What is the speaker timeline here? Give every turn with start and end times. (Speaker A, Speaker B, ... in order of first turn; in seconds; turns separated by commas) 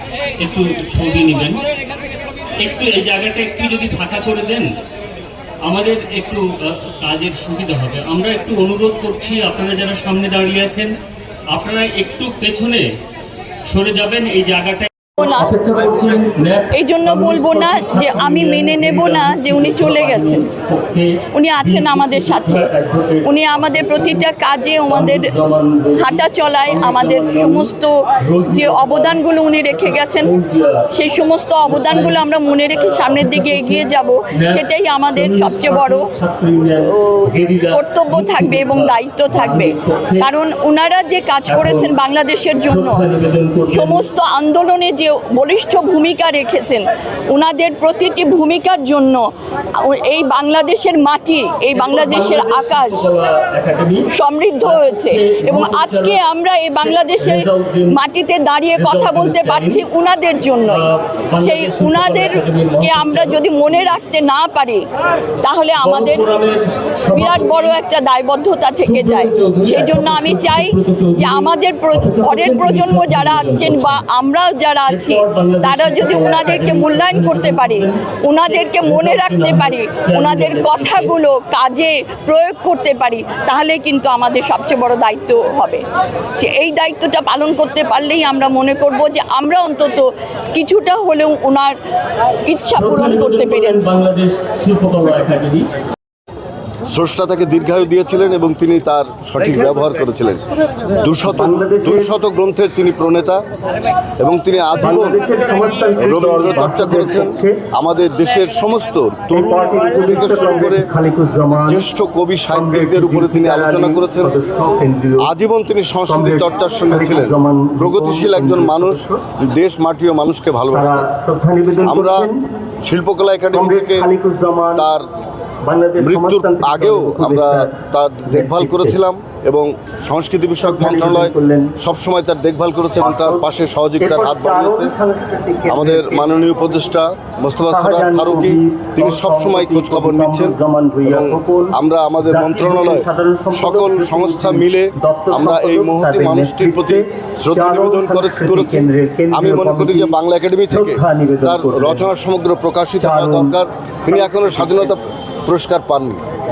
Speaker A: 0.4-1.6, Speaker A: 2.6-4.7, Speaker A: 5.6-10.9, Speaker A: 11.5-12.9, Speaker A: 13.7-24.3, Speaker B: 15.2-15.5, Speaker B: 16.7-20.5, Speaker B: 21.3-22.7, Speaker B: 23.2-25.3, Speaker A: 24.9-30.9, Speaker B: 25.9-30.3, Speaker B: 30.9-36.1, Speaker A: 31.6-40.3, Speaker B: 36.9-43.0, Speaker A: 41.5-41.9, Speaker A: 42.6-44.0, Speaker B: 43.7-49.3, Speaker B: 49.8-53.1, Speaker A: 51.7-56.2, Speaker B: 54.1-60.9, Speaker A: 56.7-58.0, Speaker A: 58.7-59.8, Speaker A: 60.6-63.8, Speaker B: 61.4-64.8, Speaker B: 65.4-66.2, Speaker A: 65.8-67.8, Speaker B: 67.1-85.8, Speaker A: 68.8-74.0, Speaker A: 74.9-81.1, Speaker B: 86.4-91.7, Speaker B: 92.5-93.9, Speaker A: 92.7-95.7, Speaker C: 96.9-100.4, Speaker C: 101.0-103.4, Speaker A: 101.3-102.1, Speaker C: 104.2-105.2, Speaker A: 104.8-107.5, Speaker C: 105.9-110.9, Speaker A: 109.3-111.8, Speaker C: 111.6-114.3, Speaker A: 112.5-115.3, Speaker C: 115.2-121.1, Speaker A: 116.1-119.2, Speaker A: 120.7-122.5, Speaker C: 121.7-122.3, Speaker C: 122.8-124.1, Speaker A: 123.5-124.9, Speaker C: 124.8-125.0, Speaker A: 125.6-127.7, Speaker C: 126.0-134.9, Speaker A: 128.2-129.0, Speaker A: 130.6-131.7, Speaker A: 133.0-133.5, Speaker A: 134.0-136.4, Speaker C: 135.7-156.2, Speaker A: 137.7-150.2, Speaker A: 150.7-152.1, Speaker A: 153.0-153.6, Speaker A: 154.1-154.9